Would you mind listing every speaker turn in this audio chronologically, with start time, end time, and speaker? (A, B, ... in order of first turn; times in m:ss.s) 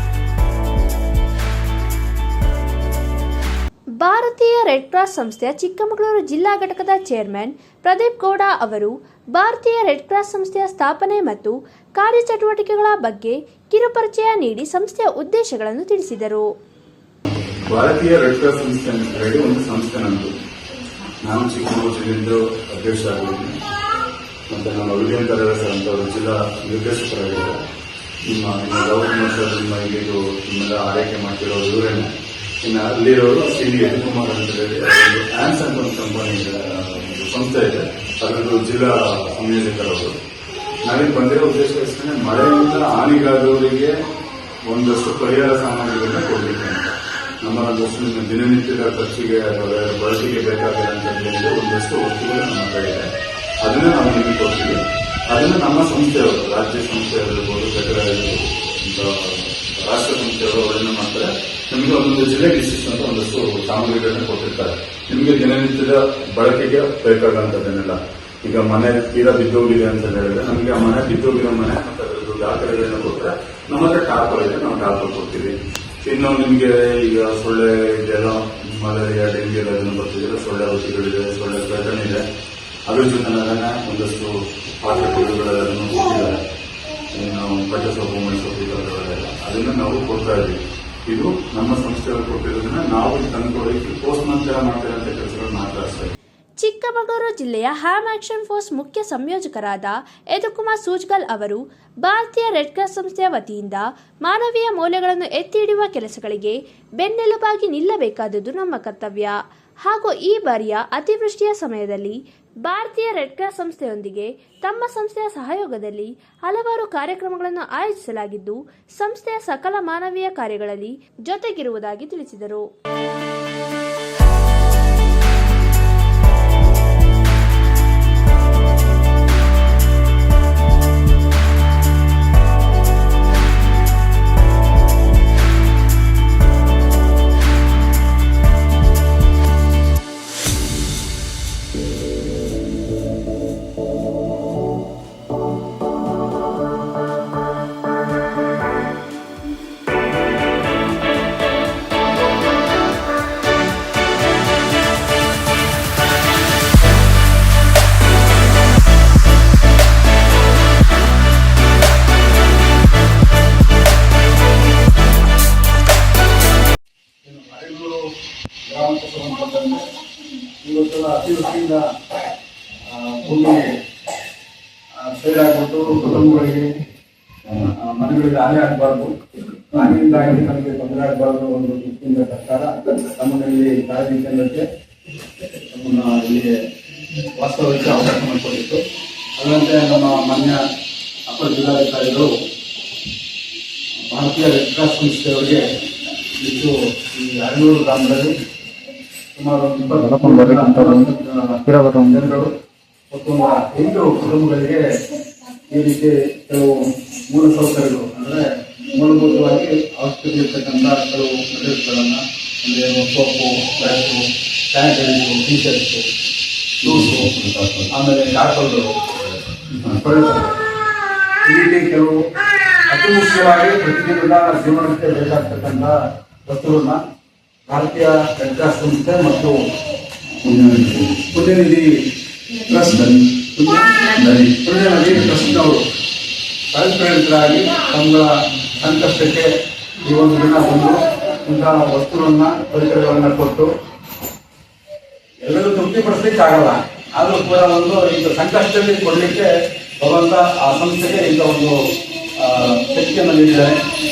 0:04.0-0:16.5 A
0:17.7-0:20.3 B
0:21.2-0:23.6 B
0:24.5-0:27.6 B
0:28.2-0:32.1 B
0:32.6-0:40.1 B
0:40.9-0:43.9 B
0:44.7-0:53.1 B
0:53.6-0:54.8 B
0:55.3-1:22.2 B
1:22.9-1:26.4 B
1:27.1-1:36.1 B
1:36.6-2:02.6 A
2:47.2-2:48.0 C
2:48.6-2:49.8 C
2:50.6-2:51.8 C
2:52.9-2:53.7 C
2:55.0-2:56.7 C
2:57.6-2:59.1 C
2:59.7-3:04.6 C
3:05.7-3:06.5 C
3:07.4-3:08.8 C
3:09.4-3:10.6 C
3:11.3-3:12.3 C
3:14.1-3:15.6 C
3:16.4-3:18.3 C
3:19.4-3:22.5 C
3:19.9-3:21.1 B
3:21.7-3:22.3 B
3:23.1-3:24.8 C
3:25.7-3:26.7 C
3:27.3-3:34.2 C
3:34.7-3:36.0 C
3:36.8-3:37.9 B
3:36.8-3:37.3 C
3:37.9-3:38.9 C
3:39.8-3:40.5 C
3:41.4-3:42.2 C
3:42.9-3:46.0 C
3:46.5-3:47.0 C
3:47.7-3:49.6 C
3:50.4-3:51.2 B
3:51.3-3:51.9 C
3:52.7-3:55.8 C
3:52.9-3:53.2 B
3:54.2-3:54.6 B
3:55.1-3:55.6 B
3:56.7-3:59.5 C
4:00.0-4:03.7 C
4:05.4-4:09.5 C
4:10.0-4:11.8 C
4:12.4-4:13.8 C